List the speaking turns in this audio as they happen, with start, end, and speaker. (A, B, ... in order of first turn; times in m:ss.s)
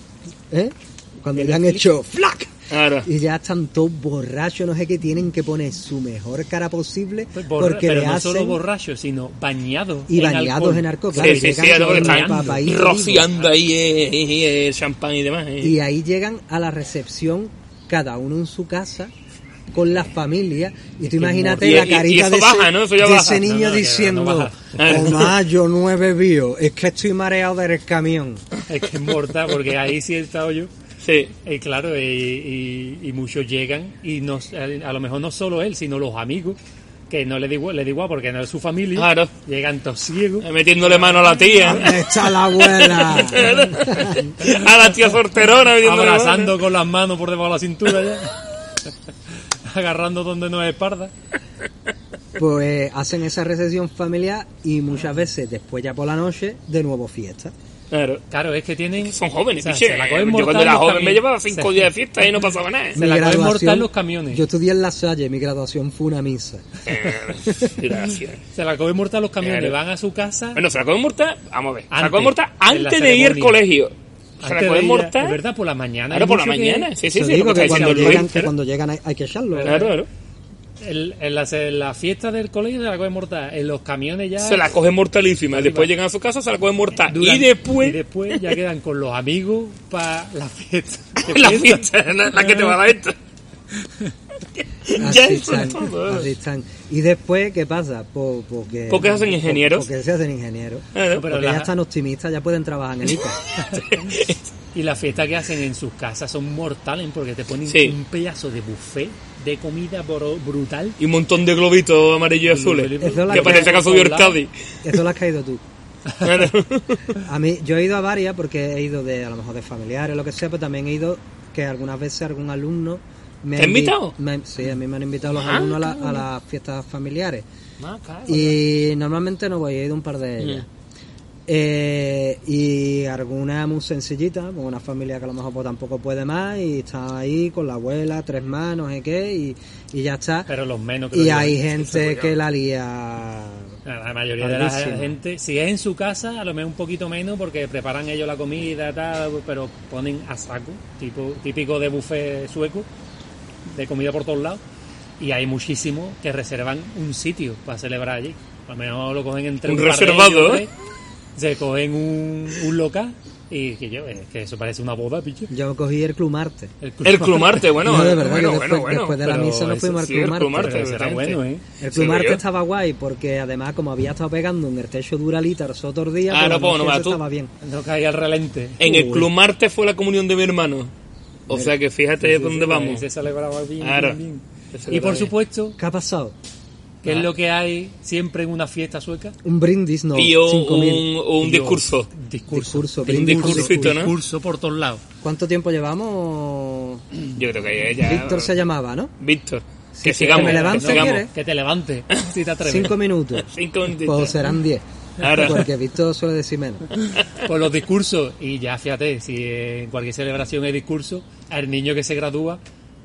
0:00.5-0:02.5 A
0:01.3-0:01.8 B
0:02.7-0:03.1 C
0:03.0-0:08.6 A
0:07.3-0:12.7 B
0:10.1-0:13.3 A
0:11.1-0:15.8 C
0:15.6-0:19.1 A
0:19.7-0:28.4 A
0:21.1-0:21.7 B
0:21.5-0:23.5 C
0:23.4-0:25.2 B
0:24.7-0:25.3 C
0:28.7-0:30.7 B
0:31.0-0:31.3 C
0:31.4-0:36.6 B
0:37.1-0:41.7 B
0:39.0-0:39.3 C
0:40.4-0:42.0 C
0:41.6-0:44.3 A
0:42.5-0:46.6 C
0:45.8-0:48.4 B
0:49.6-0:51.1 B
0:52.4-0:57.5 A
0:57.9-0:58.2 C
0:58.3-1:01.9 B
0:59.0-1:03.0 C
1:02.9-1:07.8 A
1:03.0-1:04.4 B
1:06.8-1:08.4 C
1:08.5-1:10.6 B
1:09.4-1:09.8 C
1:10.5-1:13.9 C
1:11.9-1:13.6 B
1:14.4-1:16.9 B
1:14.4-1:15.4 C
1:16.1-1:18.3 C
1:17.1-1:19.9 A
1:17.5-1:18.5 B
1:19.5-1:19.9 B
1:19.6-1:20.1 C
1:20.8-1:24.6 B
1:24.4-1:28.6 C
1:25.5-1:25.9 B
1:27.1-1:32.8 B
1:31.3-1:33.2 C
1:34.8-1:36.3 C
1:35.0-1:43.4 A
1:38.9-1:39.9 C
1:40.9-1:41.3 C
1:41.1-1:41.7 B
1:43.6-1:44.1 B
1:43.7-1:44.4 C
1:44.7-1:51.0 B
1:47.7-1:48.0 C
1:51.0-1:54.5 C
1:52.5-1:54.4 B
1:53.0-1:54.0 A
1:54.8-1:55.6 A
1:56.2-1:57.2 C
1:57.2-2:07.4 A
2:03.6-2:04.1 C
2:05.3-2:06.2 C
2:07.8-2:08.6 C
2:08.3-2:10.6 A
2:11.5-2:20.5 A
2:20.5-2:22.2 B
2:21.1-2:23.8 A
2:23.8-2:32.9 B
2:24.4-2:25.2 A
2:33.6-2:34.6 B
2:35.2-2:40.7 B
2:39.6-2:40.6 C
2:41.4-2:45.5 B
2:45.5-2:46.7 A
2:46.8-2:47.7 B
2:47.0-2:49.2 C
2:47.8-2:50.9 A
2:49.2-2:50.0 B
2:49.8-2:52.4 C
2:50.6-2:51.6 B
2:51.8-2:57.5 A
2:56.3-2:57.2 C
2:57.6-2:58.8 B
2:58.8-3:00.9 C
2:58.8-2:59.3 A
3:01.5-3:03.0 C
3:01.5-3:01.7 A
3:02.2-3:05.8 B
3:03.8-3:04.2 C
3:04.7-3:05.3 C
3:05.8-3:06.4 A
3:07.0-3:09.3 B
3:09.4-3:11.0 A
3:10.1-3:12.1 C
3:11.4-3:15.0 B
3:12.5-3:13.9 A
3:13.1-3:14.1 C
3:15.2-3:17.0 A
3:17.4-3:18.5 C
3:18.0-3:19.1 A
3:19.2-3:21.2 C
3:19.9-3:21.3 A
3:20.3-3:22.9 B
3:22.6-3:23.5 A
3:23.4-3:24.4 C
3:24.0-3:26.9 A
3:25.2-3:25.6 C
3:27.4-3:32.6 B